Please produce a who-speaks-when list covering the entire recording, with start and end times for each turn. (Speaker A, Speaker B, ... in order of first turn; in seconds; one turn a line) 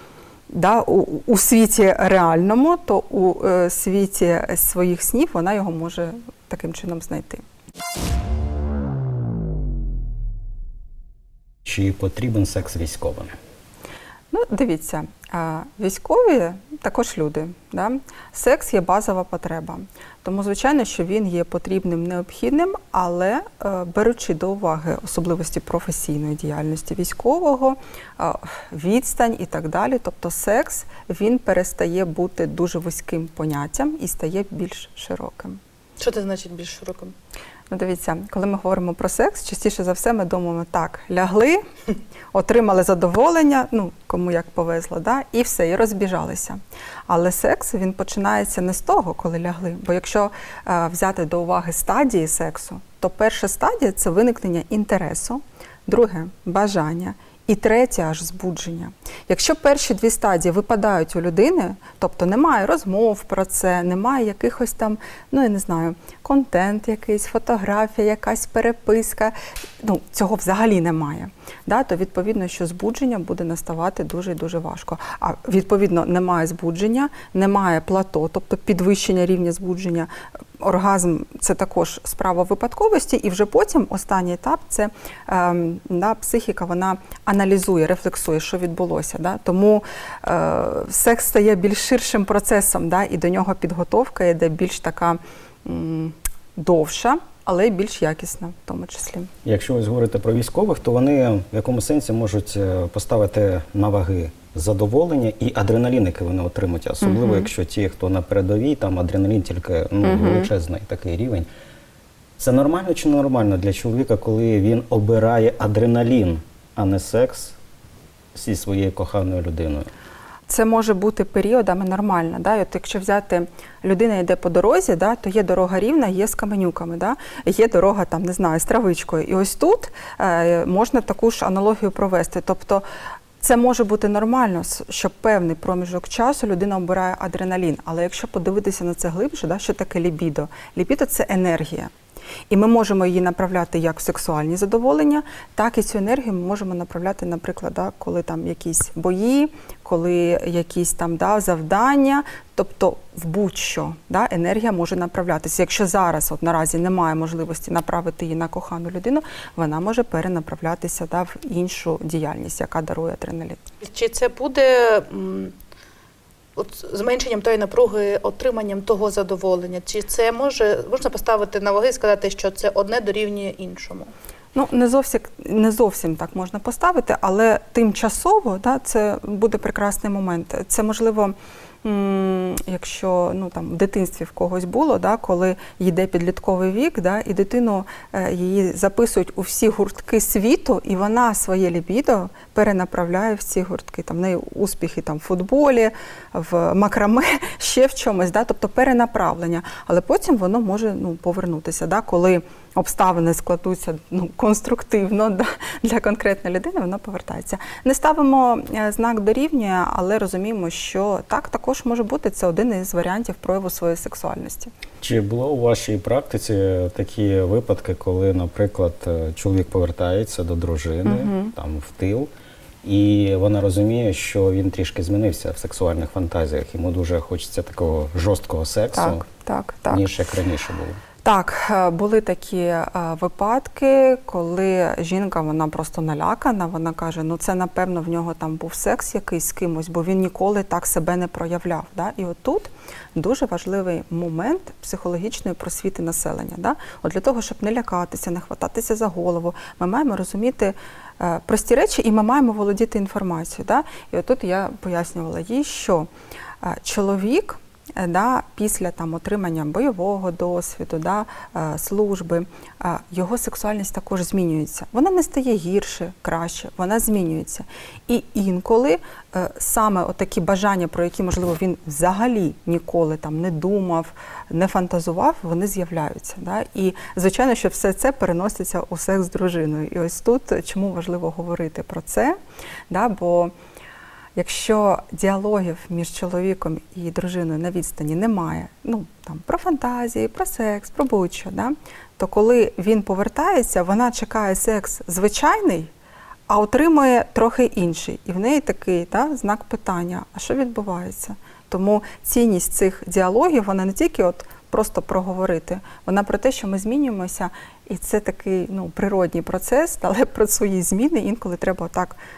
Speaker A: 0.5-7.4
Speaker B: 11.7-13.3
Speaker A: 14.3-35.6
Speaker C: 36.0-37.1
Speaker A: 37.7-41.6
Speaker A: 42.3-99.3
Speaker B: 99.5-111.5
Speaker A: 107.0-107.5
Speaker A: 110.0-110.5
Speaker B: 112.4-117.6
Speaker B: 118.3-119.9
Speaker A: 120.5-132.8
Speaker A: 133.4-141.9
Speaker A: 142.5-163.6
Speaker C: 163.8-165.6
Speaker C: 166.6-174.1
Speaker A: 174.5-214.7
Speaker B: 215.0-222.3
Speaker A: 221.1-221.5
Speaker B: 222.8-229.2
Speaker A: 229.0-230.1
Speaker B: 229.9-231.0
Speaker A: 231.2-256.1
Speaker A: 256.6-282.4
Speaker A: 282.9-283.5
Speaker A: 284.4-295.9
Speaker A: 296.5-312.2